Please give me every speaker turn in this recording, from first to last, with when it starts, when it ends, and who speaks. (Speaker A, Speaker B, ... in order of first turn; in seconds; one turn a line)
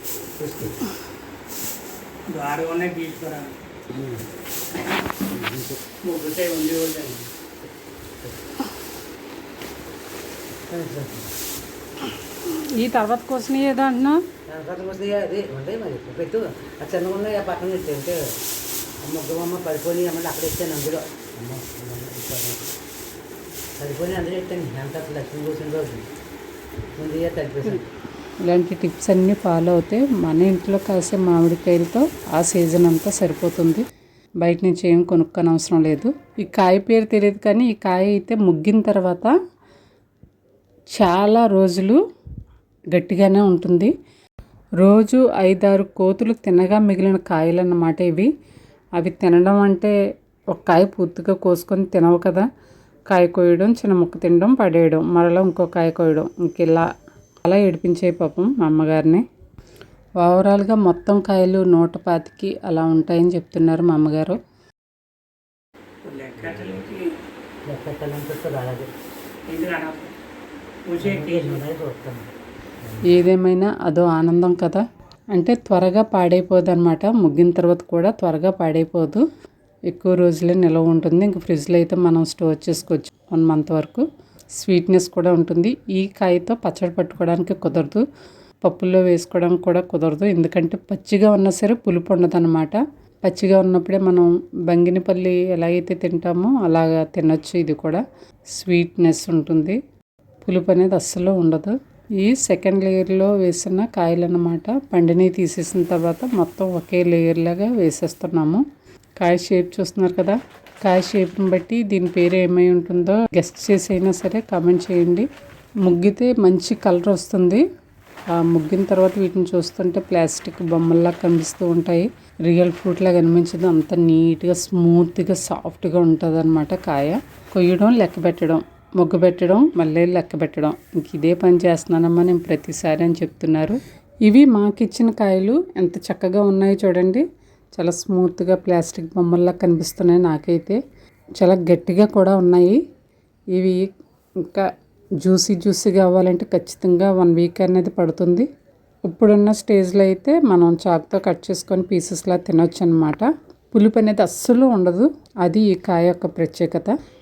Speaker A: 0.4-0.8
Speaker B: 2.3-3.5
Speaker A: 3.9-4.3
Speaker A: 5.2-5.8
Speaker B: 6.0-7.3
Speaker A: 10.7-11.3
Speaker C: 12.4-14.2
Speaker A: 14.5-18.4
Speaker A: 19.0-22.7
Speaker A: 23.8-26.1
Speaker A: 27.0-27.9
Speaker C: 28.4-33.8
Speaker C: 34.4-39.3
Speaker C: 41.0-42.0
Speaker C: 42.9-43.9
Speaker C: 44.8-48.3
Speaker C: 49.0-50.0
Speaker C: 50.5-52.5
Speaker C: 53.1-56.9
Speaker C: 57.4-59.2
Speaker C: 60.2-64.4
Speaker B: 66.0-67.1
Speaker A: 67.7-68.9
Speaker B: 69.5-70.1
Speaker B: 70.9-71.7
Speaker A: 71.0-72.3
Speaker C: 73.1-79.2
Speaker C: 79.9-84.1
Speaker C: 84.6-88.0
Speaker C: 88.6-98.0
Speaker C: 98.6-99.8
Speaker C: 100.4-108.6
Speaker C: 109.2-115.3
Speaker C: 115.9-117.7
Speaker C: 118.3-137.2
Speaker C: 137.8-140.8
Speaker C: 141.4-142.8
Speaker C: 143.6-143.9
Speaker C: 144.4-144.7
Speaker C: 145.2-148.5
Speaker C: 149.1-156.9